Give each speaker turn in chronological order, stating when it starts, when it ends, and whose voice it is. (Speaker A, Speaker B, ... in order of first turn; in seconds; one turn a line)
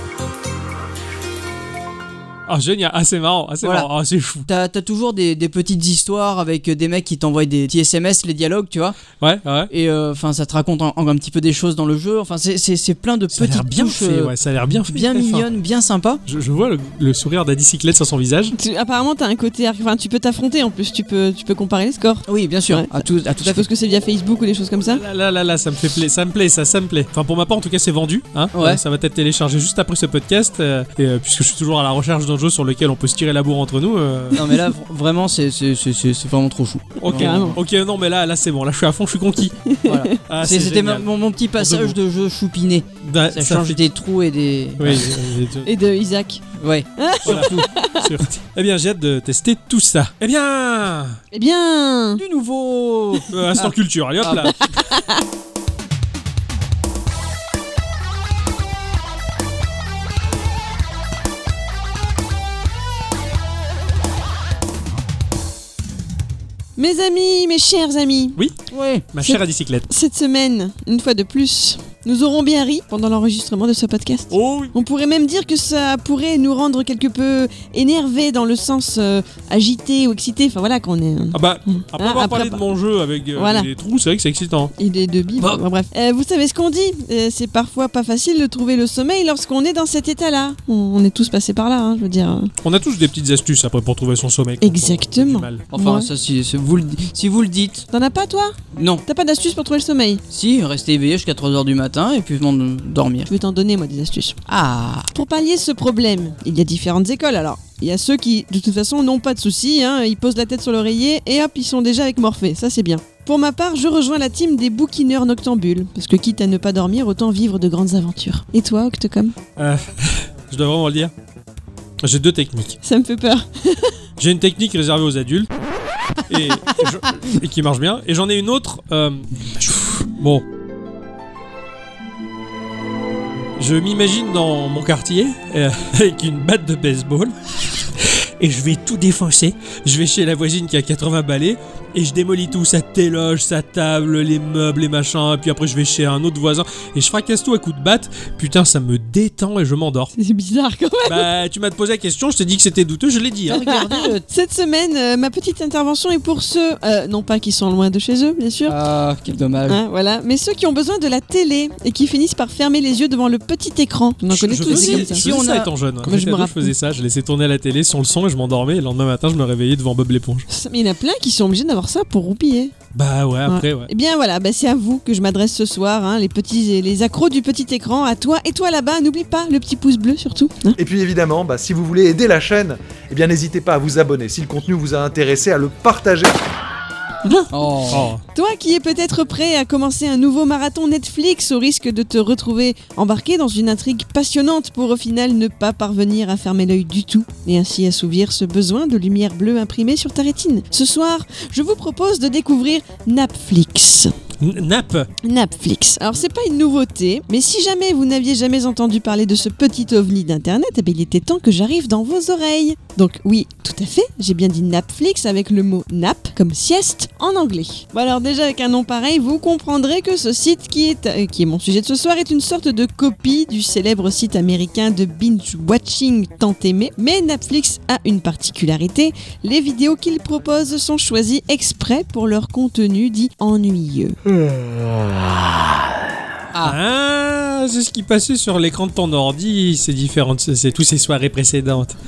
Speaker A: 2.5-4.5
Speaker B: 3.6-3.9
Speaker B: 4.5-9.0
Speaker A: 9.2-9.7
Speaker B: 9.7-14.3
Speaker A: 13.3-15.5
Speaker B: 14.9-16.2
Speaker A: 16.3-18.5
Speaker C: 18.5-25.0
Speaker B: 22.3-23.7
Speaker A: 24.8-34.5
Speaker B: 28.5-28.8
Speaker B: 34.3-37.6
Speaker A: 37.0-39.6
Speaker C: 37.1-37.6
Speaker C: 39.7-40.1
Speaker B: 39.9-45.1
Speaker A: 40.2-42.0
Speaker A: 43.0-43.8
Speaker A: 44.8-45.7
Speaker C: 45.6-46.4
Speaker B: 46.6-47.7
Speaker C: 47.0-48.1
Speaker A: 47.2-51.2
Speaker C: 51.3-52.2
Speaker B: 52.2-54.5
Speaker A: 53.3-54.6
Speaker C: 54.6-55.2
Speaker C: 66.8-68.4
Speaker B: 68.7-69.1
Speaker A: 69.1-69.9
Speaker C: 69.2-82.7
Speaker A: 74.3-74.8
Speaker A: 81.3-84.7
Speaker C: 83.3-83.7
Speaker C: 84.8-92.5
Speaker A: 92.6-95.7
Speaker C: 94.6-96.1
Speaker B: 95.7-97.9
Speaker C: 97.9-100.2
Speaker B: 98.8-99.0
Speaker B: 100.3-103.3
Speaker C: 103.3-104.4
Speaker B: 104.5-105.1
Speaker C: 105.1-119.3
Speaker A: 119.6-121.1
Speaker A: 122.0-122.8
Speaker C: 122.8-123.9
Speaker A: 124.2-125.5
Speaker A: 126.3-130.4
Speaker A: 133.6-150.1
Speaker C: 150.2-151.3
Speaker A: 151.1-153.6
Speaker B: 153.5-154.2
Speaker C: 153.7-158.8
Speaker B: 158.7-159.8
Speaker C: 159.7-165.3
Speaker A: 164.3-170.5
Speaker B: 164.5-165.7
Speaker C: 166.1-166.7
Speaker C: 170.5-172.7
Speaker A: 172.9-173.9
Speaker C: 173.5-180.8
Speaker D: 180.8-186.4
Speaker B: 187.5-188.1
Speaker A: 187.9-188.2
Speaker C: 188.3-204.1
Speaker A: 204.4-205.1
Speaker C: 205.2-234.2
Speaker B: 236.5-236.8
Speaker A: 236.6-242.0